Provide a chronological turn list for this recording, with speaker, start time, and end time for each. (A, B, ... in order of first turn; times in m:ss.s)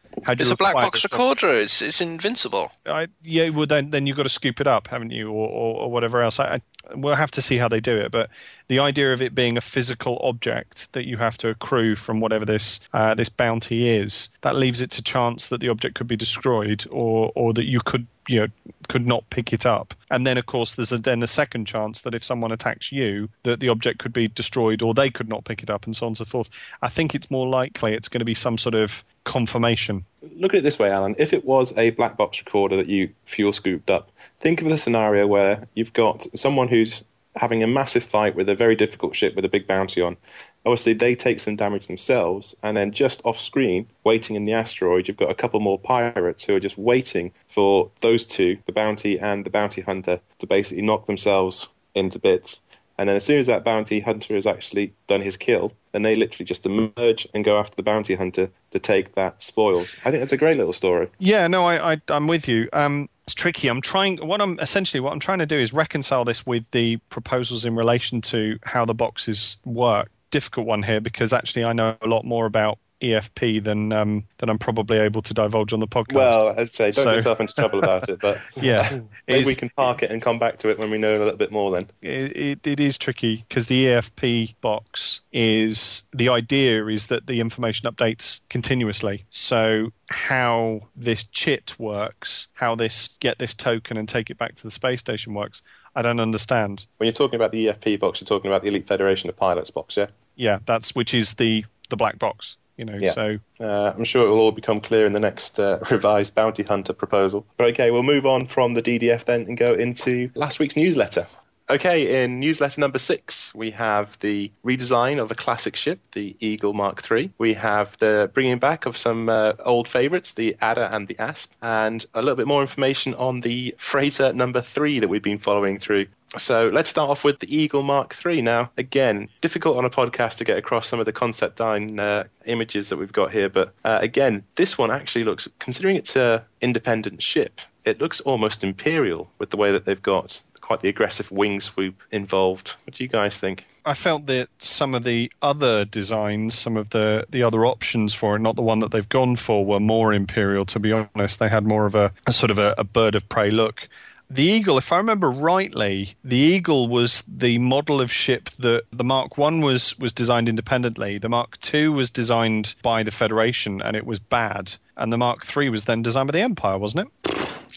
0:00.2-0:01.2 A
0:00.4-0:02.7 B
0:02.9-0:30.0 A
0:30.2-1:01.1 C
1:01.2-1:16.4 A
1:16.1-1:21.9 C
1:16.9-1:17.3 A
1:18.6-1:20.0 A
1:22.0-1:36.9 A
1:37.0-1:40.1 C
1:40.4-1:43.4 A
1:43.0-2:23.6 C
2:23.8-2:47.1 A